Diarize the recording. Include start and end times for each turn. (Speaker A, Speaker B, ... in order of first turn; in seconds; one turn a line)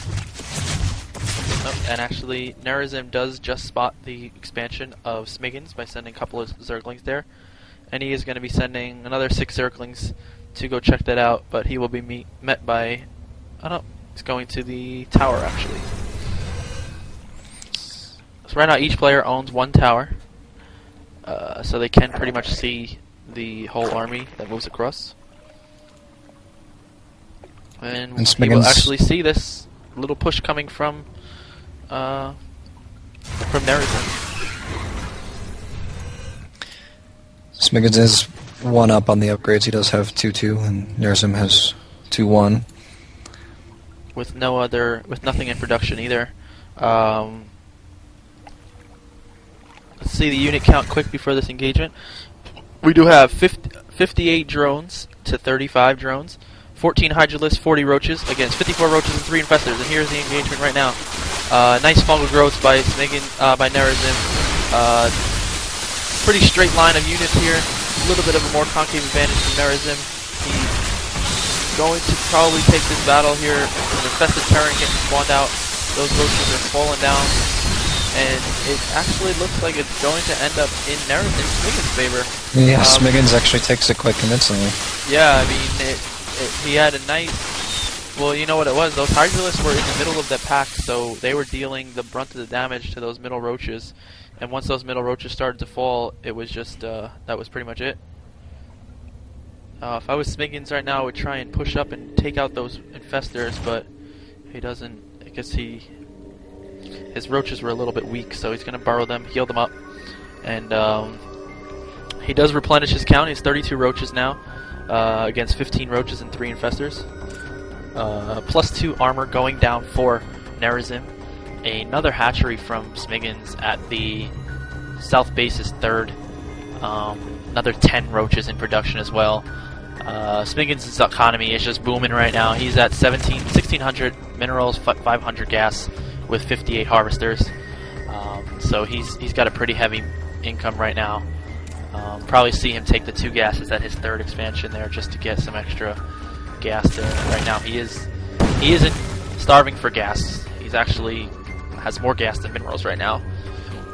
Speaker A: 1.5-16.0
Speaker A: 17.7-20.4
Speaker A: 21.2-25.2
Speaker A: 27.8-32.7
Speaker B: 28.2-28.9
Speaker A: 33.4-34.3
Speaker B: 37.5-42.7
Speaker A: 44.1-47.5
Speaker A: 50.0-83.2
Speaker B: 82.5-84.8
Speaker A: 85.0-98.0
Speaker A: 99.8-106.1
Speaker A: 107.1-111.4
Speaker A: 112.2-117.2
Speaker A: 117.9-124.4
Speaker A: 124.9-141.3
Speaker A: 141.8-153.3